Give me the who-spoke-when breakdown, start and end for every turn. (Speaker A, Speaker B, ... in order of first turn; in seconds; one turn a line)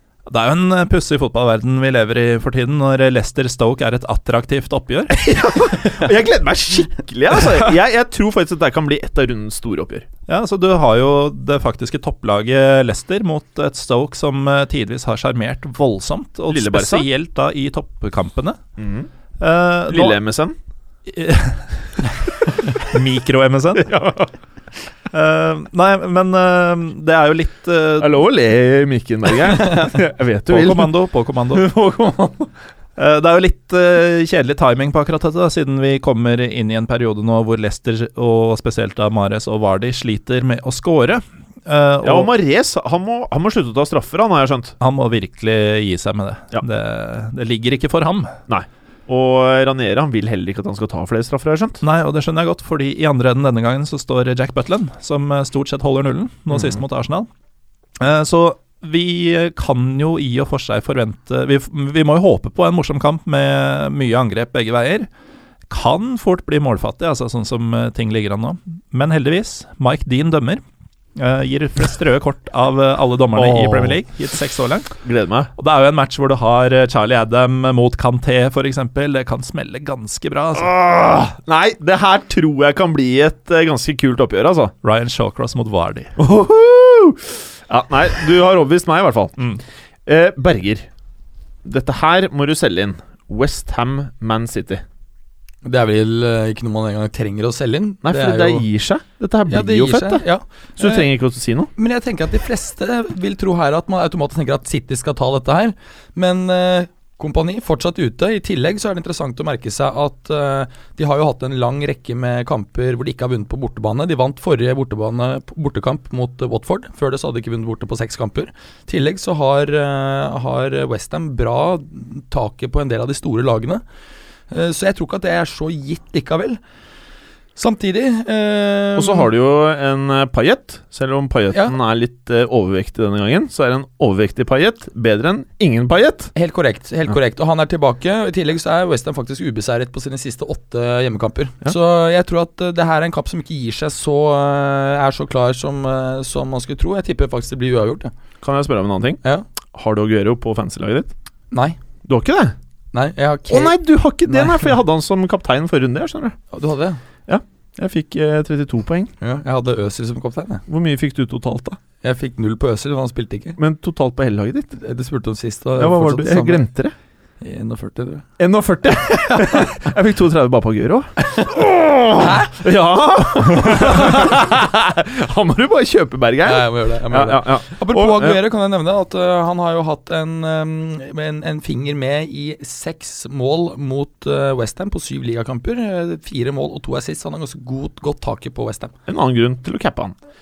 Speaker A: 0.3-6.1
Speaker B: 5.1-10.1
Speaker A: 10.3-18.6
Speaker B: 16.5-17.1
Speaker B: 18.8-19.1
Speaker A: 19.4-20.2
Speaker B: 19.9-20.6
Speaker A: 21.1-23.9
Speaker B: 23.8-24.3
Speaker A: 25.1-28.2
Speaker B: 28.0-31.0
Speaker A: 29.6-29.9
Speaker A: 30.5-31.7
Speaker B: 31.5-32.5
Speaker A: 33.0-42.3
Speaker B: 42.0-44.8
Speaker A: 44.8-48.4
Speaker B: 48.5-51.8
Speaker A: 51.8-57.3
Speaker B: 56.5-56.8
Speaker A: 58.0-65.1
Speaker A: 65.7-70.6
Speaker A: 71.2-74.9
Speaker B: 73.3-74.0
Speaker B: 75.0-75.5
Speaker A: 75.6-80.7
Speaker B: 80.6-84.7
Speaker A: 84.8-86.1
Speaker B: 86.2-89.4
Speaker B: 90.1-90.9
Speaker B: 91.7-94.8
Speaker C: 95.6-98.7
Speaker B: 98.1-100.2
Speaker C: 99.5-101.1
Speaker B: 100.8-101.7
Speaker C: 101.8-123.8
Speaker C: 124.5-126.6
Speaker C: 127.6-129.3
Speaker B: 129.0-136.3
Speaker C: 136.3-148.1
Speaker B: 148.4-149.2
Speaker B: 149.7-151.1
Speaker C: 151.5-151.8
Speaker B: 152.1-152.6
Speaker C: 152.9-154.7
Speaker B: 153.5-156.4
Speaker C: 156.5-157.0
Speaker B: 157.3-159.1
Speaker C: 159.2-160.6
Speaker B: 160.7-161.8
Speaker C: 162.0-163.6
Speaker B: 163.6-164.8
Speaker C: 164.8-166.7
Speaker B: 165.8-166.9
Speaker C: 167.4-168.2
Speaker B: 168.4-178.4
Speaker C: 169.3-169.6
Speaker C: 172.2-172.7
Speaker C: 173.6-174.2
Speaker C: 176.4-188.9
Speaker B: 189.1-190.2